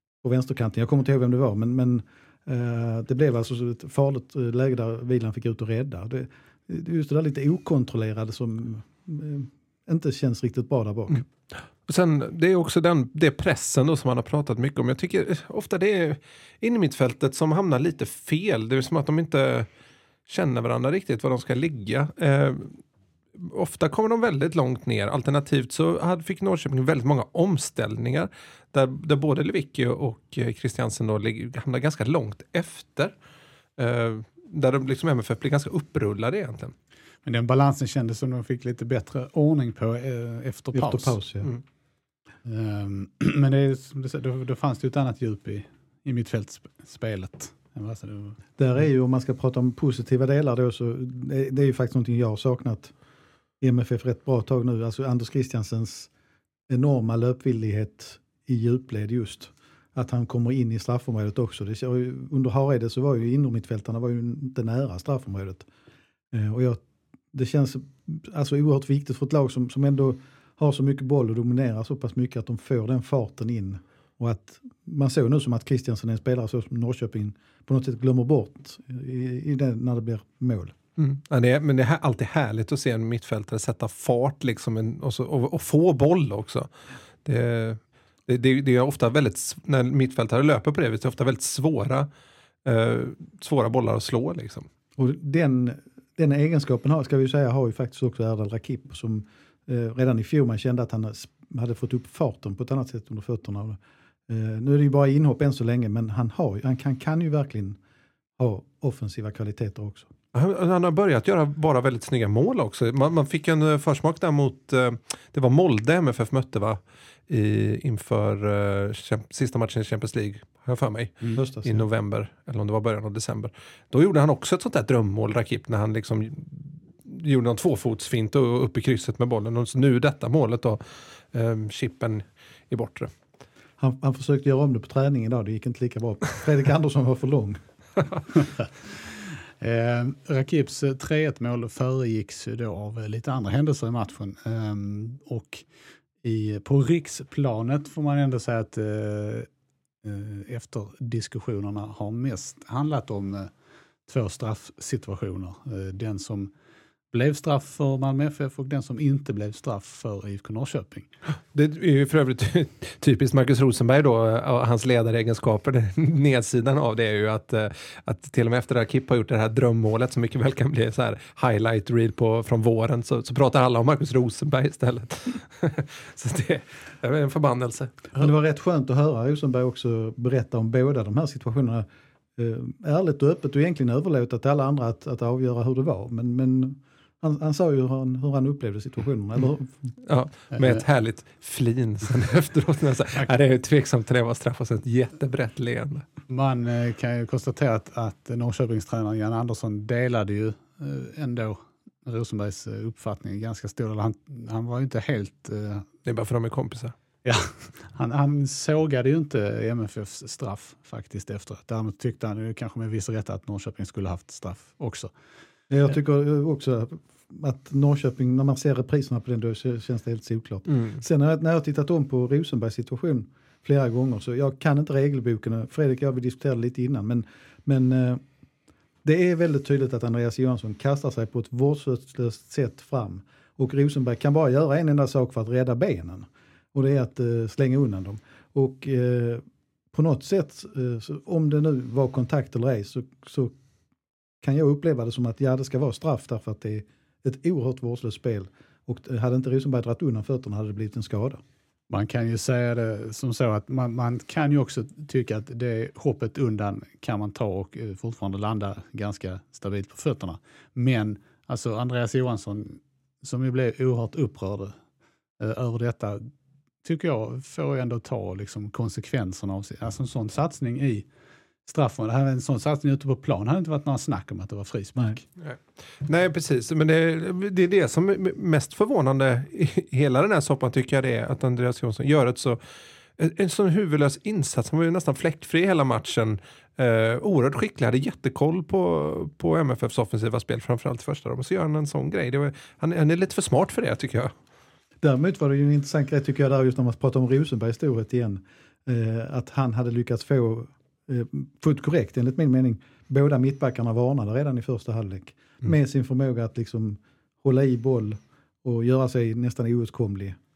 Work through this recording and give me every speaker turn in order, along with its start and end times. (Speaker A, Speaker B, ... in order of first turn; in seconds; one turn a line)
Speaker A: 0.2-11.2
Speaker B: 11.9-19.7
Speaker B: 20.3-22.8
Speaker B: 23.4-33.1
Speaker B: 33.8-36.7
Speaker C: 37.2-41.2
Speaker A: 40.7-41.5
Speaker C: 42.4-48.4
Speaker A: 48.6-52.9
Speaker A: 53.6-56.1
Speaker A: 56.7-65.7
Speaker A: 66.3-66.8
Speaker A: 67.3-80.7
Speaker B: 81.0-86.7
Speaker B: 87.2-92.1
Speaker B: 92.7-94.7
Speaker A: 95.0-107.8
Speaker A: 108.4-110.1
Speaker B: 110.3-133.1
Speaker A: 121.3-121.8
Speaker A: 133.8-137.6
Speaker C: 139.2-145.7
Speaker C: 146.2-149.5
Speaker C: 150.0-153.5
Speaker C: 154.1-156.5
Speaker C: 157.1-161.1
Speaker B: 161.5-178.1
Speaker A: 178.2-189.7
Speaker B: 190.1-196.1
Speaker C: 190.5-190.8
Speaker C: 196.3-205.8
Speaker B: 206.1-206.9
Speaker C: 207.2-215.1
Speaker A: 215.7-228.2
Speaker A: 229.0-243.5
Speaker A: 244.4-251.4
Speaker C: 251.9-264.8
Speaker C: 265.4-266.3
Speaker C: 266.8-271.1
Speaker C: 271.6-275.2
Speaker B: 275.4-282.6
Speaker B: 283.2-294.3
Speaker A: 295.0-310.4